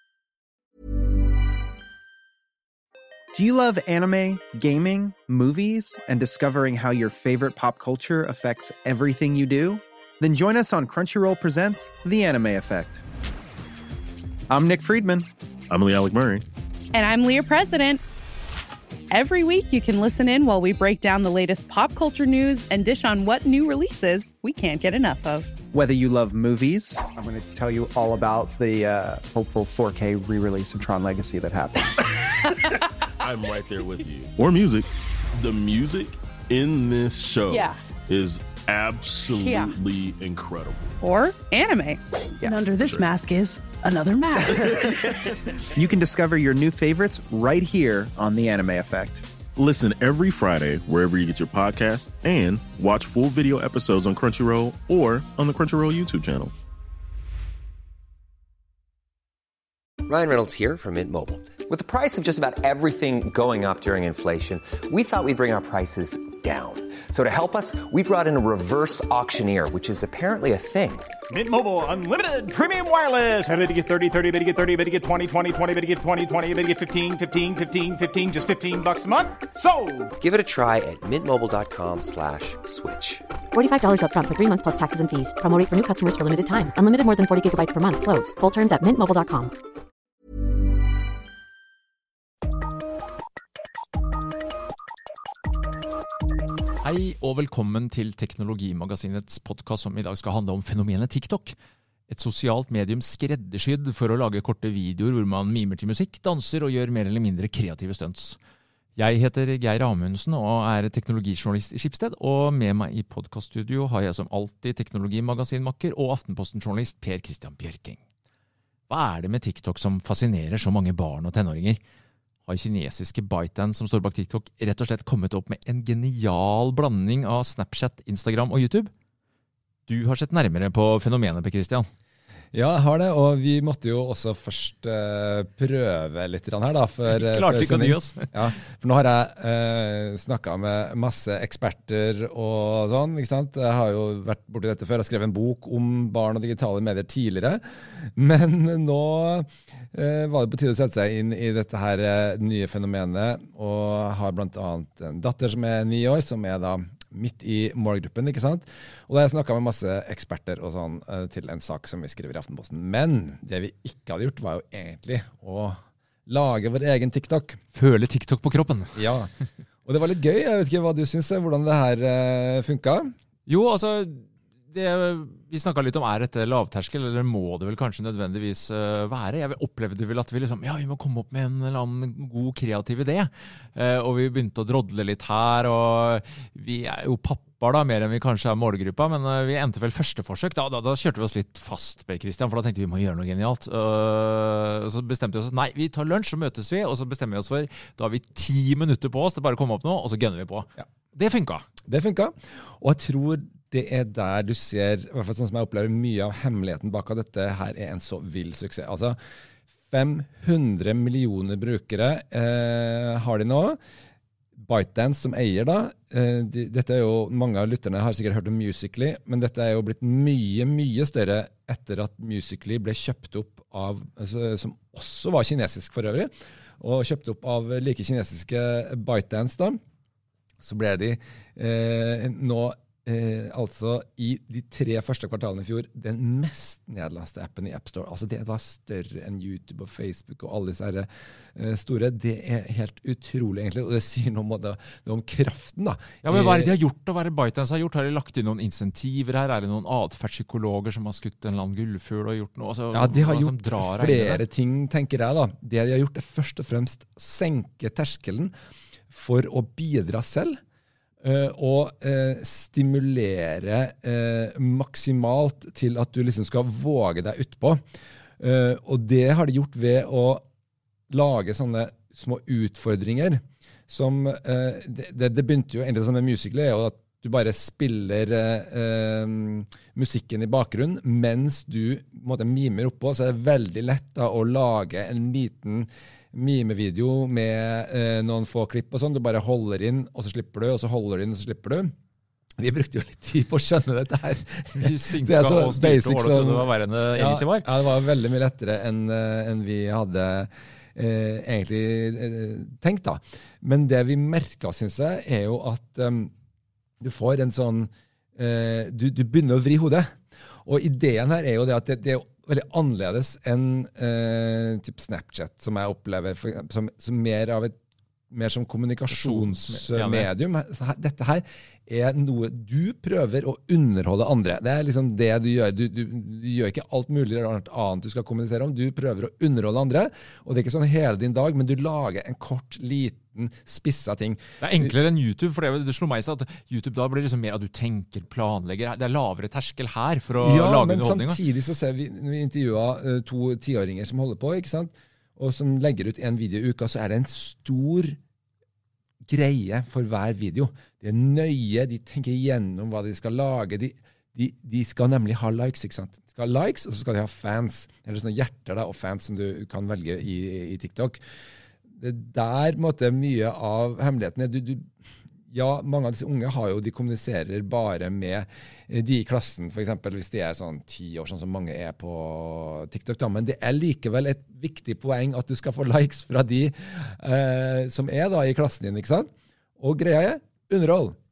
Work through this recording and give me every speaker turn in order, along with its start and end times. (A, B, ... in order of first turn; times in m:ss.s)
0:03.3-0:13.0 A
0:14.5-0:15.3 A
0:15.7-0:16.4 B
0:16.9-0:18.0 C
0:19.1-0:25.5 C
0:25.7-0:32.0 A
0:33.2-0:40.9 B
0:37.5-0:37.8 C
0:39.4-0:39.8 C
0:41.0-0:42.0 C
0:42.4-0:42.7 A
0:42.5-0:44.4 D
0:42.7-0:43.1 B
0:44.6-0:45.2 B
0:45.8-0:49.2 A
0:49.6-0:56.5 B
1:00.1-1:11.1 E
1:11.3-1:20.1 F
1:20.2-1:23.2 E
1:23.5-1:29.5 G
1:36.8-1:41.6 H
1:42.1-1:48.4 H
1:49.0-1:58.0 H
1:58.9-2:01.8 H
2:02.5-2:08.9 H
2:09.9-2:11.9 H
2:12.5-2:47.6 I
2:17.0-2:18.3 H
2:47.7-2:49.0 H
2:49.0-2:49.3 I
2:49.8-2:53.1 I
2:53.5-3:21.7 H
3:21.9-3:29.2 I
3:29.9-3:33.8 I
3:34.6-3:49.8 I
3:50.6-4:06.8 I
4:06.2-4:14.4 H
4:12.9-4:18.5 I
4:19.1-4:20.6 I
4:21.2-4:27.8 I
4:28.4-4:30.4 I
4:31.1-4:51.9 I
4:52.6-5:06.3 I
4:54.8-4:57.7 H
5:07.0-5:17.8 I
5:18.3-5:34.9 I
5:19.1-5:20.3 H
5:34.6-5:41.4 H
5:40.3-5:48.2 I
5:49.3-6:01.2 I
6:02.0-6:04.9 I
6:05.5-6:21.2 I